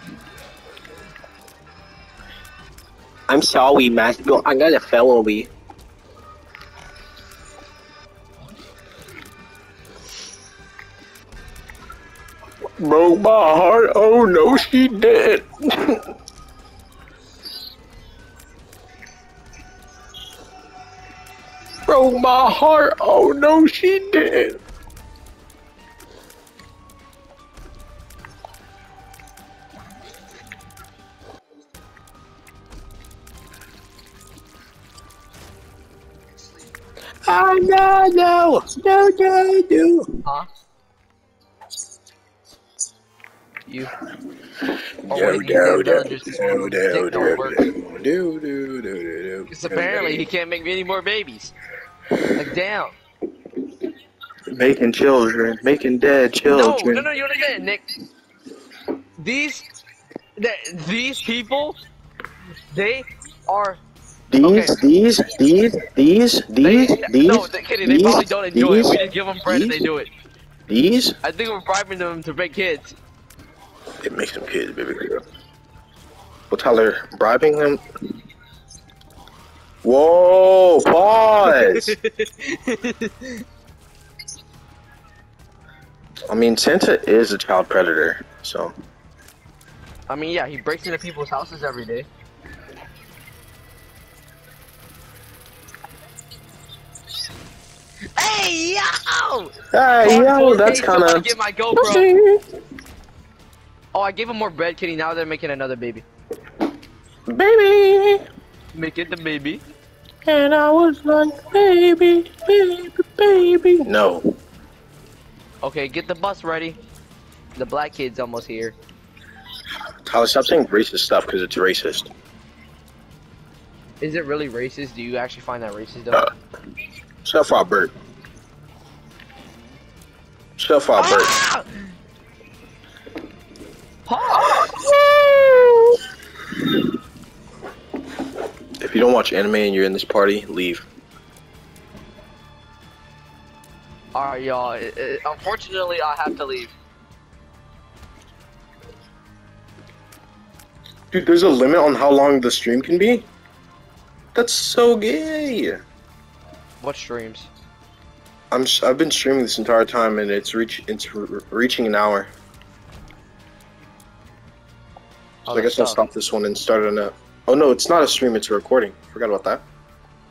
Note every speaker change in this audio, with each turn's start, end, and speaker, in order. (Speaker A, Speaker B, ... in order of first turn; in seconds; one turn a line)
Speaker A: 3.3-5.5
Speaker A: 12.8-16.1
Speaker A: 21.9-24.6
Speaker A: 37.2-40.2
Speaker B: 43.7-43.9
Speaker A: 44.6-50.3
Speaker B: 45.1-47.6
Speaker B: 49.5-51.5
Speaker B: 52.4-52.9
Speaker A: 54.5-57.1
Speaker B: 56.5-57.9
Speaker B: 59.2-59.7
Speaker B: 60.4-61.8
Speaker B: 62.7-63.8
Speaker A: 64.3-69.8
Speaker B: 64.4-64.8
Speaker B: 66.6-70.1
Speaker A: 70.7-71.2
Speaker B: 71.2-73.0
Speaker A: 74.0-75.2
Speaker A: 76.5-77.8
Speaker A: 79.8-82.0
Speaker B: 81.5-83.5
Speaker A: 86.3-88.7
Speaker B: 90.1-92.1
Speaker B: 98.2-102.1
Speaker A: 99.7-102.4
Speaker B: 103.9-106.1
Speaker A: 107.3-108.2
Speaker B: 108.7-109.6
Speaker A: 110.2-114.4
Speaker B: 115.6-116.8
Speaker B: 117.6-118.8
Speaker A: 120.0-122.1
Speaker B: 124.0-126.3
Speaker A: 127.2-127.9
Speaker A: 130.6-131.3
Speaker B: 131.0-131.9
Speaker B: 134.1-134.8
Speaker A: 134.3-136.0
Speaker A: 138.8-140.9
Speaker B: 144.2-146.7
Speaker A: 151.1-153.3
Speaker A: 154.3-155.8
Speaker B: 156.8-157.5
Speaker A: 158.5-162.3
Speaker B: 165.5-166.0
Speaker A: 165.5-169.6